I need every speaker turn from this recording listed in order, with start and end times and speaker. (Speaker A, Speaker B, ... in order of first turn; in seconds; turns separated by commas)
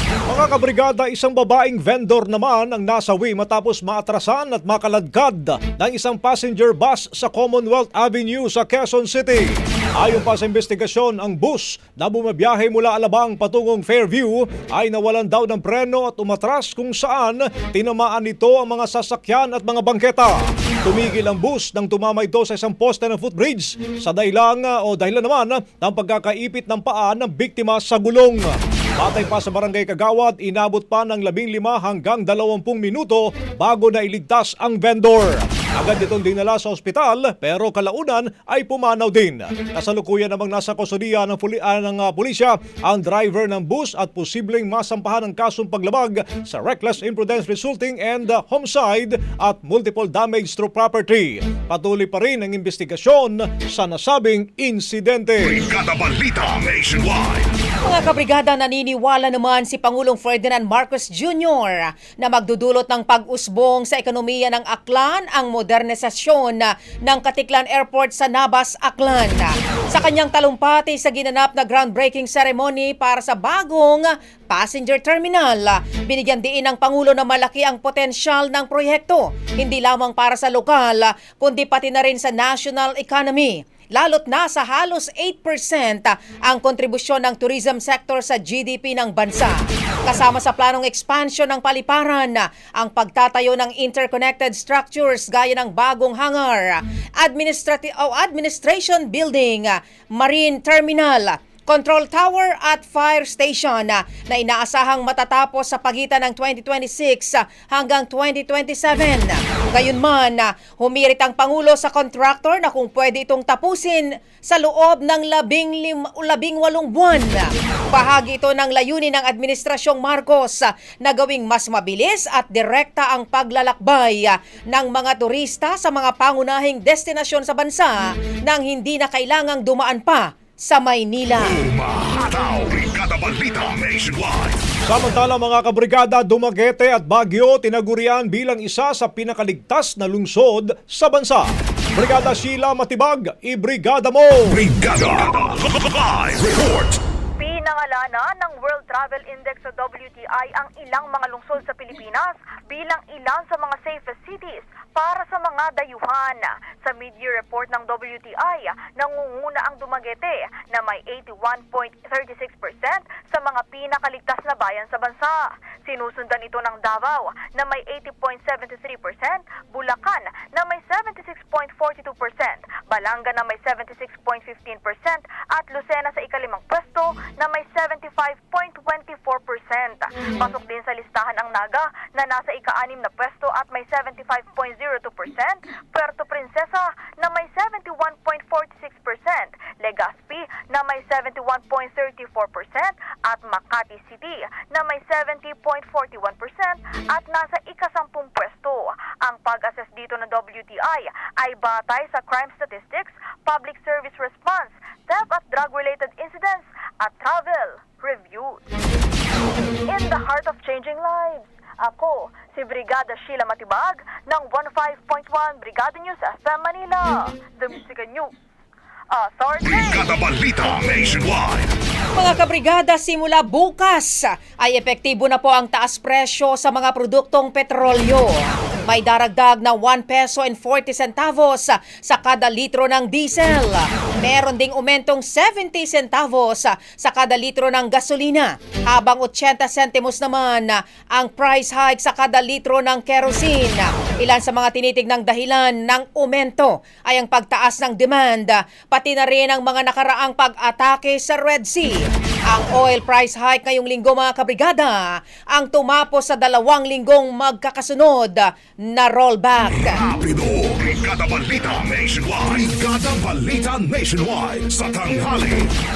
Speaker A: 0.3-55.6, Speaker B: 55.4-57.5, Speaker C: 57.8-131.7, Speaker B: 131.4-134.6, Speaker A: 134.9-144.6, Speaker B: 144.5-147.0, Speaker D: 147.4-208.7, Speaker D: 209.9-218.3, Speaker D: 219.1-220.2, Speaker B: 219.7-221.7, Speaker C: 222.2-260.0, Speaker B: 259.8-265.7